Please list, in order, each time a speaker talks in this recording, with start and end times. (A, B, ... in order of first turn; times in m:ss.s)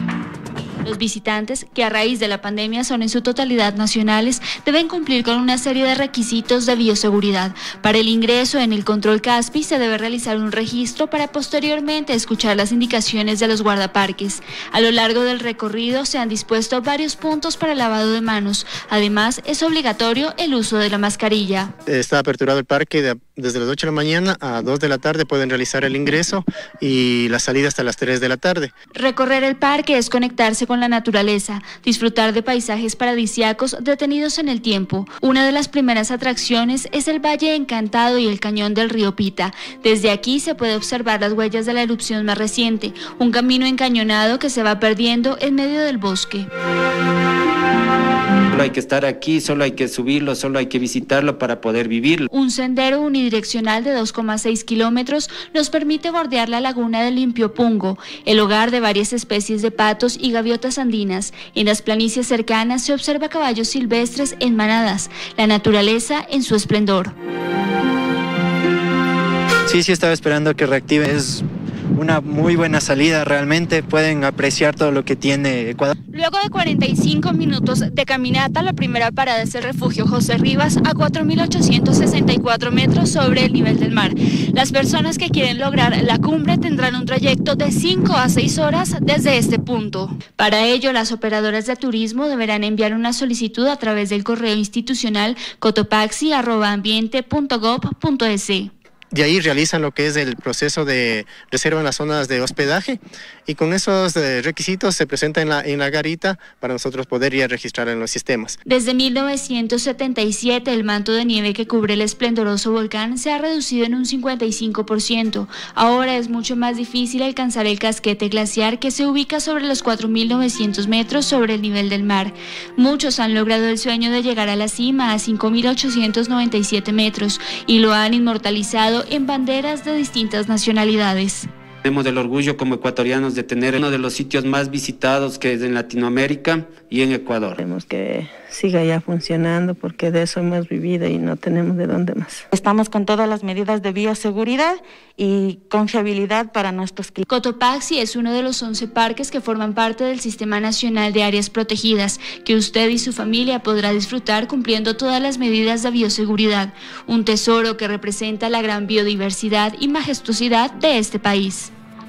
0:00.8-0:21.7 A
0:21.8-0:28.7 B
0:28.9-0:46.5 A
0:48.5-0:52.3 C
0:52.3-1:07.1 A
1:09.6-1:15.9 D
1:16.1-1:38.7 A
1:39.1-1:48.6 B
1:48.6-2:11.5 A
2:11.8-2:17.6 C
2:17.6-2:22.4 E
2:22.5-2:27.2 F
2:27.3-2:41.7 A